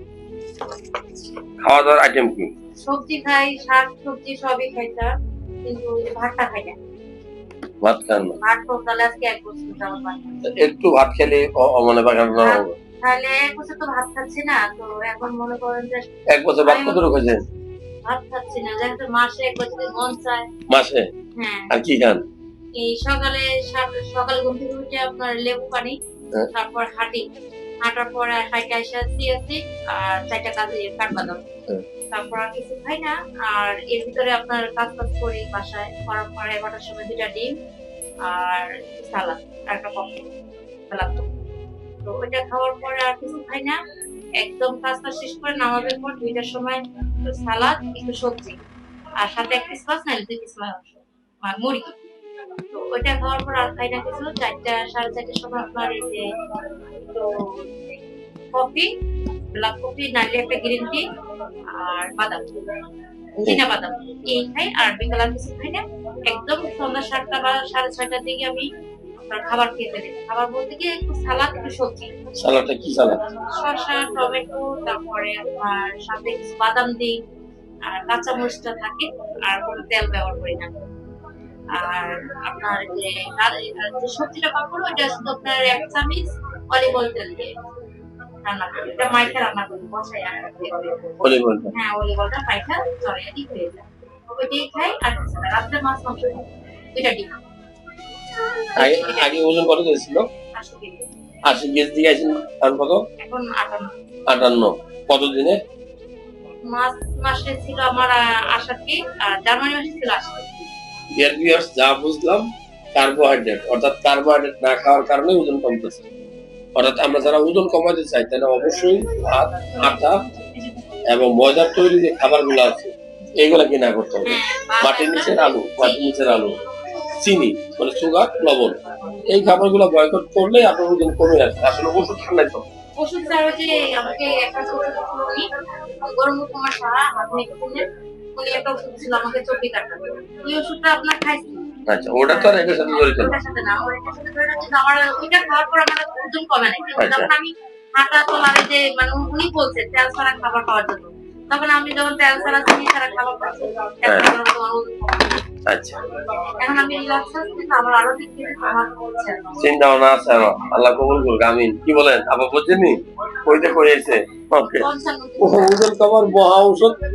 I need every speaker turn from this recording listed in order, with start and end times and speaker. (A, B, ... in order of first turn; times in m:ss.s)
0:01.6-0:02.5 A
0:02.8-0:05.1 B
0:05.6-0:06.8 B
0:07.8-0:08.4 A
0:08.4-0:10.4 B
0:10.4-0:12.8 A
0:12.4-0:16.1 B
0:16.3-0:17.4 A
0:16.6-0:17.0 B
0:18.0-0:20.5 B
0:20.7-0:21.1 A
0:21.4-0:21.8 B
0:21.7-0:22.2 A
0:22.8-0:26.0 B
0:26.5-0:27.2 B
0:27.8-0:31.4 B
0:32.1-0:37.6 B
0:38.3-0:40.3 B
0:40.9-0:41.3 B
0:42.0-0:43.8 B
0:44.4-0:48.6 B
0:49.2-0:52.0 B
0:52.7-0:56.4 B
0:57.0-0:58.0 B
0:58.5-0:58.9 B
0:59.5-1:01.0 B
1:01.7-1:02.6 B
1:03.4-1:03.6 A
1:03.4-1:08.7 B
1:09.2-1:12.2 B
1:12.4-1:13.2 A
1:13.5-1:17.2 B
1:17.9-1:20.7 B
1:21.7-1:27.5 B
1:28.4-1:31.2 B
1:31.2-1:31.7 A
1:31.7-1:37.4 B
1:38.8-1:39.4 B
1:38.8-1:40.3 A
1:40.6-1:41.0 B
1:41.5-1:43.0 A
1:43.2-1:43.9 B
1:44.3-1:45.6 A
1:46.6-1:50.5 B
1:51.1-1:56.0 A
1:56.8-2:00.2 A
2:01.1-2:06.6 A
2:04.2-2:06.1 B
2:07.1-2:12.6 A
2:13.0-2:15.5 B
2:16.0-2:17.8 B
2:18.4-2:35.4 B
2:21.9-2:23.3 A
2:27.0-2:27.3 A
2:35.7-2:36.0 A
2:36.6-2:39.6 B
2:39.6-2:44.9 A
2:44.8-2:45.8 B
2:45.4-2:47.0 A